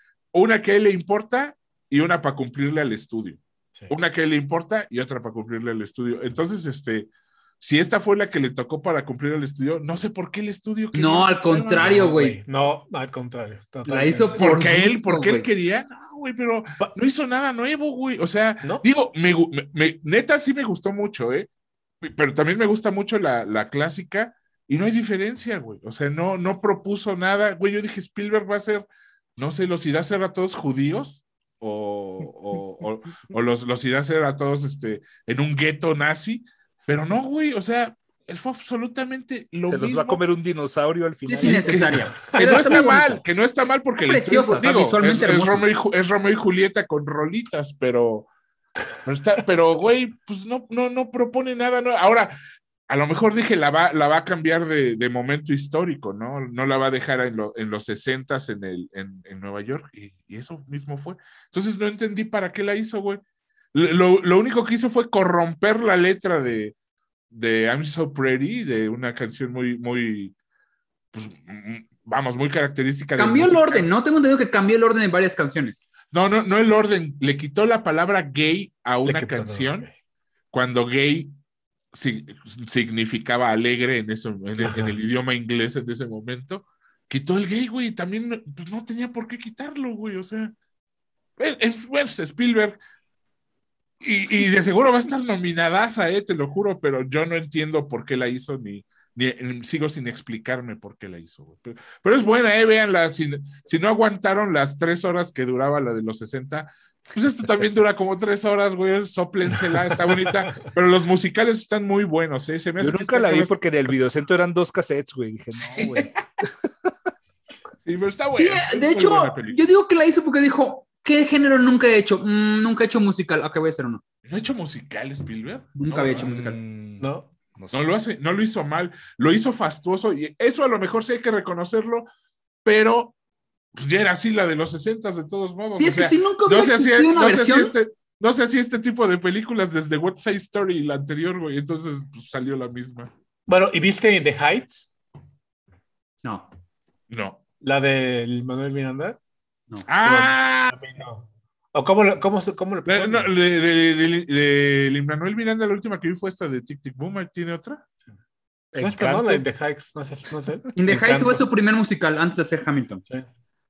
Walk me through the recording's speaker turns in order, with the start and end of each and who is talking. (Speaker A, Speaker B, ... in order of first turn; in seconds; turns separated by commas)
Speaker A: 0.3-7.1, Speaker A: 7.6-12.1, Speaker B: 10.9-12.4, Speaker C: 11.7-14.5, Speaker B: 13.9-15.5, Speaker A: 14.4-21.5, Speaker A: 22.0-28.9, Speaker A: 29.4-40.2, Speaker D: 39.7-41.9, Speaker B: 41.3-43.2, Speaker A: 41.3-48.3, Speaker C: 42.3-42.8, Speaker B: 44.0-45.7, Speaker A: 49.0-52.4, Speaker A: 52.9-63.2, Speaker A: 63.7-66.7, Speaker A: 67.3-70.3, Speaker A: 71.1-73.9, Speaker B: 73.2-75.8, Speaker A: 76.1-79.9, Speaker C: 79.0-79.9, Speaker A: 80.5-81.3, Speaker A: 81.9-90.5, Speaker C: 84.6-85.0, Speaker A: 91.4-92.8, Speaker A: 94.0-113.5, Speaker D: 112.8-116.9, Speaker A: 115.6-116.1, Speaker A: 117.9-119.6, Speaker B: 118.4-124.0, Speaker A: 124.2-126.3, Speaker B: 125.8-126.6, Speaker D: 126.2-127.8, Speaker C: 127.0-127.3, Speaker A: 127.7-132.1, Speaker A: 132.7-133.2, Speaker A: 133.7-143.1, Speaker B: 135.8-137.7, Speaker C: 143.5-144.9, Speaker A: 147.1-147.4, Speaker C: 147.6-149.2, Speaker A: 149.9-150.7, Speaker C: 150.0-153.3, Speaker A: 152.9-157.8, Speaker D: 158.7-159.4, Speaker C: 158.8-161.4, Speaker B: 160.8-163.0